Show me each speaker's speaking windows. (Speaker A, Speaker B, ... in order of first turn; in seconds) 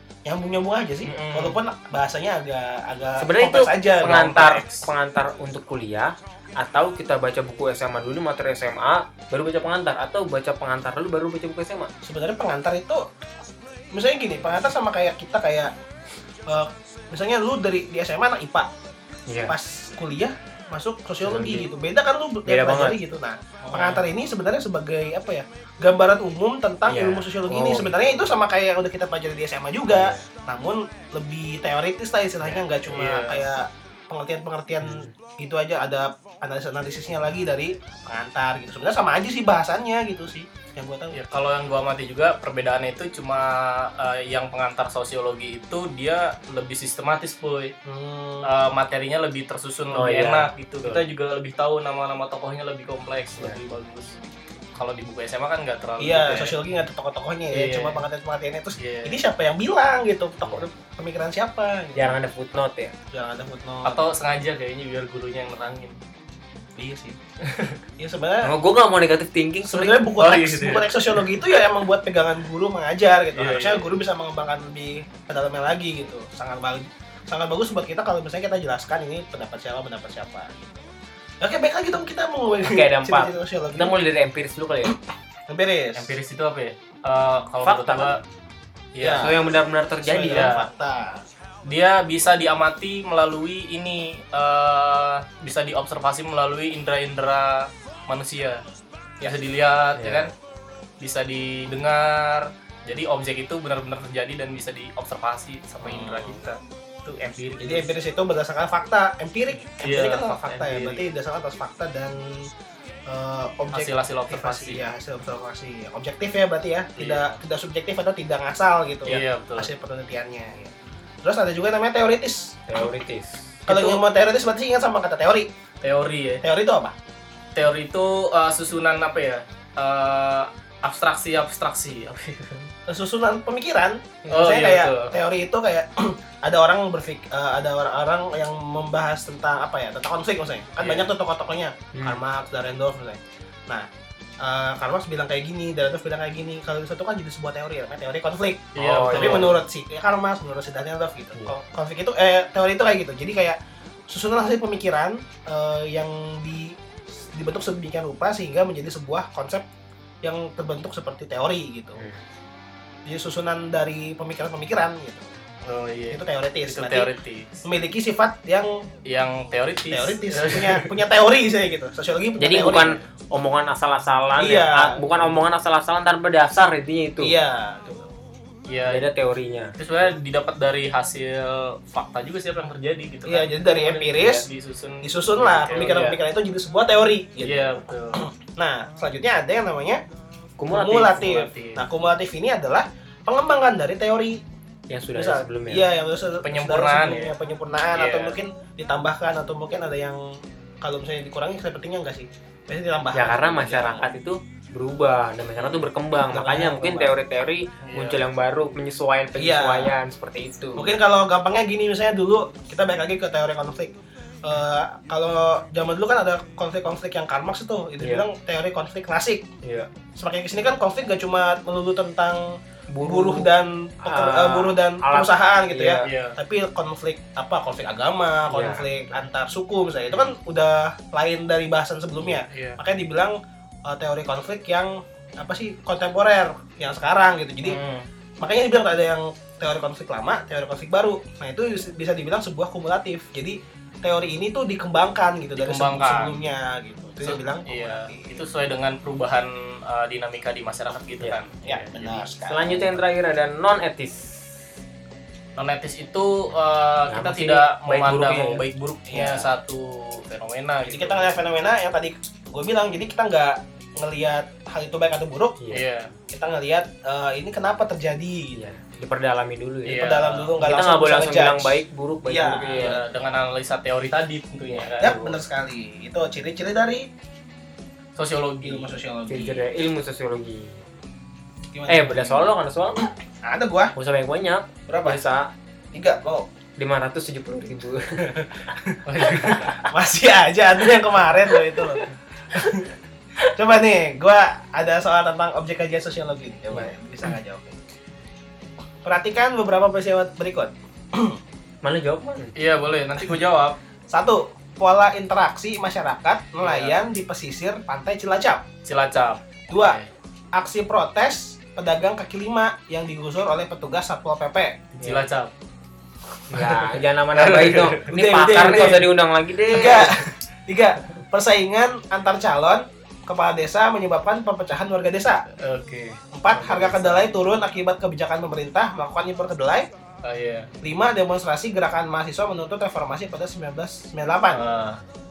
Speaker A: 0.3-4.5, 12.0-13.0, 13.9-15.7, 16.5-18.7, 19.5-41.2, 47.9-48.5, 56.0-62.2, 63.1-64.0, 66.8-67.2, 68.0-68.5, 69.7-80.9, 81.4-84.0, 85.5-86.2, 89.0-91.2, 105.8-106.4, 107.6-112.5, 113.1-120.7, 121.2-122.9, 123.7-125.5, 126.4-127.0, 132.9-143.9, 144.4-153.6, 154.1-156.8, 157.3-159.7, 160.2-162.0, 163.1-165.3, 166.1-167.1, 167.7-168.8, 169.9-173.0, 174.4-175.0, 177.2-178.1, 183.3-184.5, 185.0-190.0, 190.7-194.4, 195.2-200.3, 200.8-204.1, 206.2-207.2, 209.4-209.9, 210.8-219.5, 220.2-237.8, 238.4-248.4, 251.7-253.0, 259.1-259.5, 260.9-265.6, 266.3-268.6, 269.9-273.1, 275.0-277.1, 278.6-279.7, 281.7-282.5, 283.4-283.9, 284.9-285.2, 285.9-286.5, 288.2-292.9, 293.5-297.8, 299.0-301.4, 304.1-308.6, 309.7-310.0, 310.6-314.8, 318.1-319.1, 319.7-325.4, 326.3-329.9, 330.8-334.7
Speaker B: 1.0-1.6, 4.0-4.9, 32.9-33.5, 41.1-47.7, 48.4-54.2, 54.8-56.6, 57.5-58.0, 58.8-59.2, 63.9-66.0, 67.4-67.8, 70.2-71.2, 73.3-74.0, 86.0-88.2, 89.0-89.3, 90.3-90.7, 91.7-98.6, 99.2-100.3, 101.0-108.0, 109.8-111.0, 113.7-114.9, 117.0-117.4, 119.0-119.7, 125.8-126.4, 127.5-132.7, 134.3-135.2, 140.8-141.1, 148.8-149.6, 165.7-167.6, 169.1-170.9, 178.7-179.1, 179.8-186.2, 187.4-188.2, 191.2-191.8, 196.4-197.3, 197.9-198.4, 207.8-208.2, 226.0-226.4, 232.2-232.8, 237.6-238.1, 245.6-246.4, 247.2-252.3, 255.6-261.4, 265.7-266.1, 269.9-270.5, 272.7-275.2, 278.2-279.0, 289.1-289.7, 302.6-303.8, 306.6-307.0, 308.9-310.1, 315.0-315.5, 316.6-318.9, 325.5-327.3, 330.2-330.7, 334.5-335.0
Speaker C: 3.2-11.9, 19.3-19.6, 21.2-21.7, 22.5-23.0, 23.7-24.0, 26.9-28.1, 29.9-30.2, 34.8-35.1, 49.9-50.9, 62.0-62.9, 68.4-70.1, 82.7-85.0, 87.6-88.2, 89.1-90.5, 100.0-100.3, 122.7-124.0, 141.9-142.2, 148.8-149.6, 172.4-177.3, 178.8-179.8, 190.6-191.5, 194.9-195.8, 203.1-210.9, 219.6-219.9, 222.9-223.5, 224.0-226.1, 228.5-228.9, 252.5-254.3, 257.1-258.6, 265.6-265.9, 268.5-273.0, 275.0-275.4, 279.3-280.8, 281.9-283.1, 283.9-285.5, 286.8-288.5, 289.2-289.8, 291.5-292.1, 301.8-302.5, 315.0-315.3, 316.5-320.1